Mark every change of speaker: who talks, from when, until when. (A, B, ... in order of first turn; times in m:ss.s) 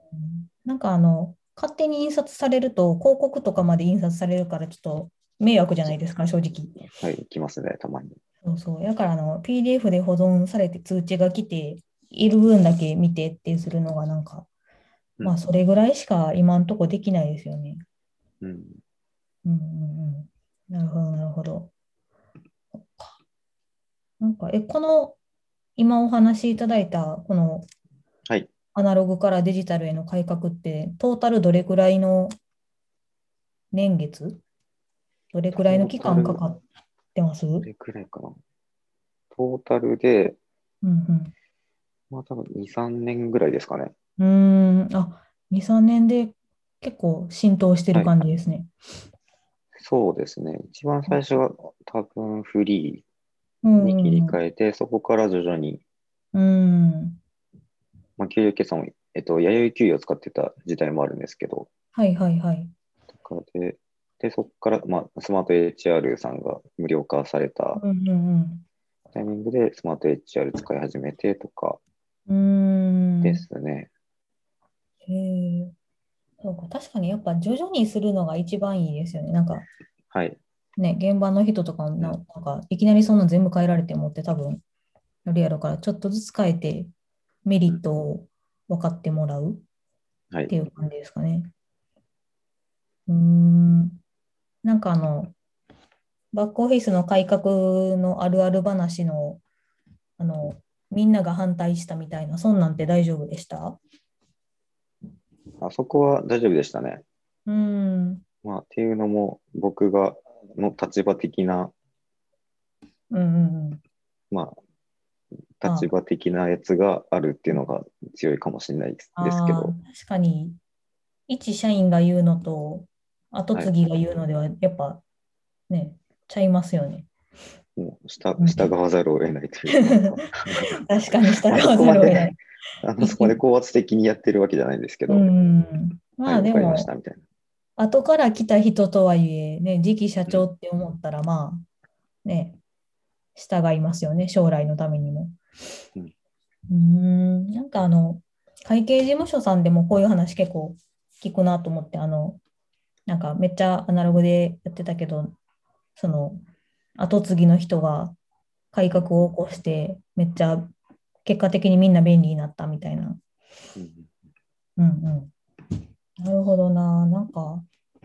0:00.1-0:06.8 A
0:06.9-0:08.2 B
0:08.4-0:14.5 A
0:15.2-0:17.8 A
0:18.4-0:18.8 B
0:19.4-0:21.7 A
0:22.8-0:23.2 A
0:24.2-0:25.2 A
0:25.8-0:27.7 A
0:28.8-0:32.3 A
0:33.7-0:34.4 A
0:35.3-0:36.6 A
0:35.6-0:36.4 B
0:37.2-0:37.7 A
0:37.6-0:38.4 B
0:39.3-0:40.4 B
0:40.8-0:41.3 A
0:42.1-0:43.9 B
0:44.2-0:48.7 A
0:49.8-0:53.0 B
0:53.6-0:54.4 A
0:53.8-0:55.8 B
0:56.3-0:57.2 A
0:58.2-1:01.7 B
1:02.0-1:02.7 A
1:03.1-1:07.8 B
1:07.8-1:08.6 A
1:09.1-1:11.8 B
1:12.3-1:13.4 A
1:13.2-1:13.9 B
1:15.1-1:15.7 A
1:16.4-1:19.7 A
1:20.1-1:20.4 B
1:20.8-1:24.6 A
1:25.2-1:26.9 A
1:27.4-1:29.6 A
1:30.5-1:31.5 A
1:33.1-1:34.0 A
1:34.6-1:35.3 A
1:36.3-1:39.4 A
1:40.2-1:43.8 A
1:45.6-1:47.0 B
1:47.5-1:48.2 A
1:48.4-1:51.7 B
1:53.1-1:53.8 A
1:54.3-1:54.6 B
1:55.6-1:59.8 B
1:55.6-1:55.9 A
1:59.2-2:00.6 A
2:01.3-2:05.0 A
2:05.7-2:07.1 A
2:07.8-2:10.8 B
2:08.4-2:08.7 A
2:09.7-2:12.4 A
2:11.5-2:15.3 B
2:13.0-2:13.4 A
2:15.1-2:16.9 A
2:16.3-2:17.2 B
2:17.8-2:21.6 A
2:22.2-2:22.6 A
2:23.4-2:25.4 A
2:26.7-2:32.4 A
2:33.1-2:35.4 A
2:36.0-2:36.4 A
2:37.0-2:38.2 A
2:38.7-2:40.7 A
2:41.2-2:43.2 A
2:43.8-2:44.1 B
2:44.8-2:45.3 A
2:46.2-2:47.6 A